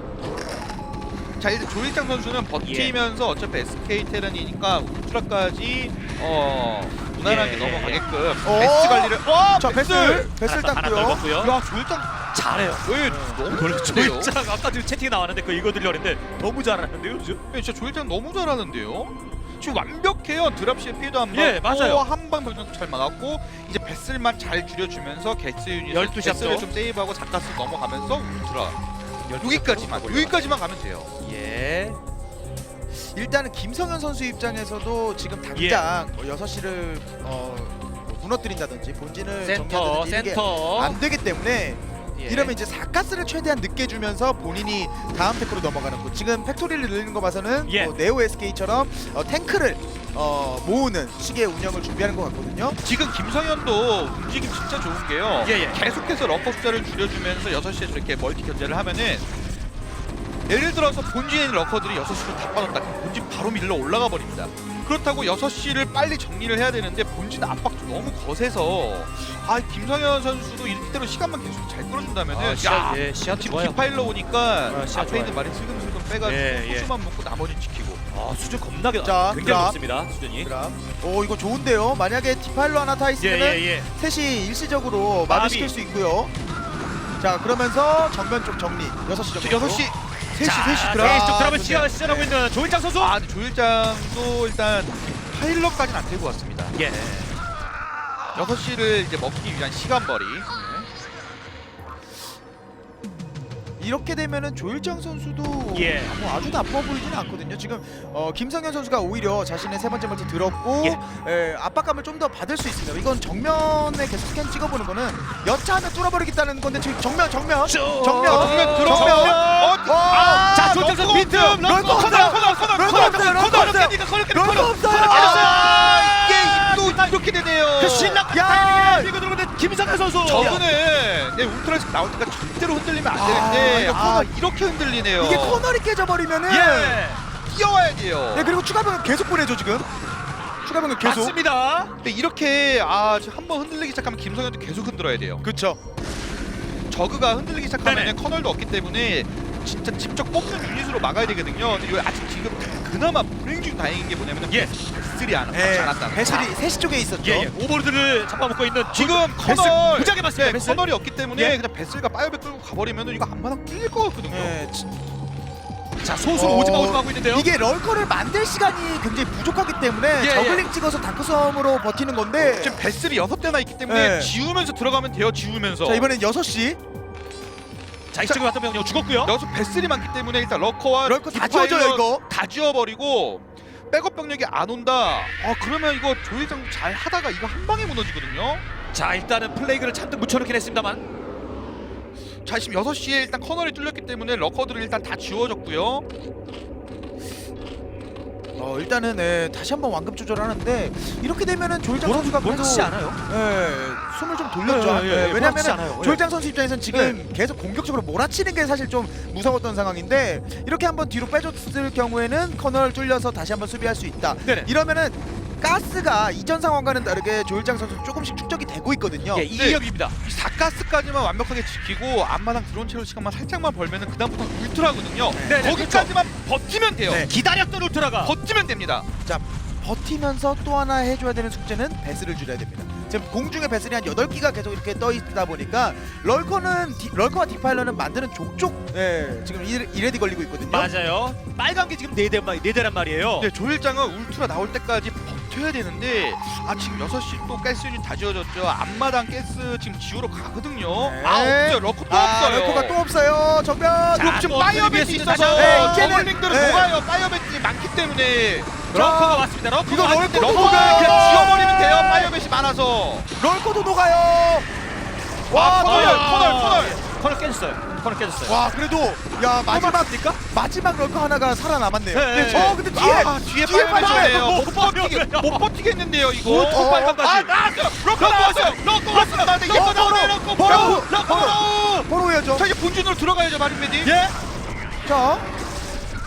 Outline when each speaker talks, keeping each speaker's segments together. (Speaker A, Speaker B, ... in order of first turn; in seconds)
Speaker A: 1.4-10.3, 11.4-12.2, 12.8-14.3, 17.5-28.8, 29.4-31.1, 52.8-59.3, 60.5-78.0, 89.4-92.3, 93.0-96.8, 98.3-100.5, 118.2-123.9, 125.0-128.2, 130.2-135.7, 137.4-138.5, 142.0-145.4, 146.9-156.5, 158.9-164.6, 172.4-176.1, 179.2-188.6, 192.4-196.1, 219.6-227.3, 228.2-229.1, 243.4-253.0, 254.2-259.4, 260.3-263.3, 265.5-267.0, 272.5-281.1, 282.6-284.1
Speaker B: 2.6-3.0, 7.2-8.0, 10.4-11.5, 12.3-12.9, 13.5-17.4, 21.3-22.0, 25.9-26.7, 29.2-30.5, 31.2-32.0, 35.5-35.8, 39.4-41.0, 42.1-42.5, 47.7-47.9, 55.4-55.8, 72.3-73.9, 74.7-75.4, 76.2-76.9, 78.1-80.5, 83.2-83.9, 85.3-85.8, 90.4-93.1, 96.8-97.3, 105.7-106.1, 117.7-127.2, 127.8-130.6, 136.5-137.2, 141.0-141.9, 147.8-148.1, 157.2-160.8, 166.0-167.5, 170.2-170.7, 178.1-179.3, 188.9-191.0, 202.0-203.2, 204.6-206.2, 206.9-207.2, 219.3-220.1, 225.4-226.1, 227.2-228.3, 240.7-243.5, 254.1-256.5, 258.9-261.4, 265.8-268.6, 269.7-270.4, 272.1-272.9, 273.9-275.6, 276.4-282.1, 284.0-284.4
Speaker C: 8.4-11.2, 13.1-13.4, 32.9-52.8, 79.0-79.8, 80.4-86.3, 87.2-89.9, 91.0-91.7, 100.5-100.9, 103.8-125.6, 128.3-129.1, 130.3-130.6, 133.1-134.3, 135.2-137.0, 138.3-139.9, 140.6-141.4, 145.4-145.8, 155.5-157.5, 164.3-165.0, 166.3-172.8, 173.9-174.3, 175.8-176.8, 181.0-182.2, 198.6-219.5, 225.3-225.7, 227.1-227.3, 229.3-240.9, 251.0-254.4, 255.6-257.0, 259.9-262.4, 263.4-264.7, 265.5-266.3, 268.4-274.5, 276.5-277.4, 279.7-282.7, 285.0-285.5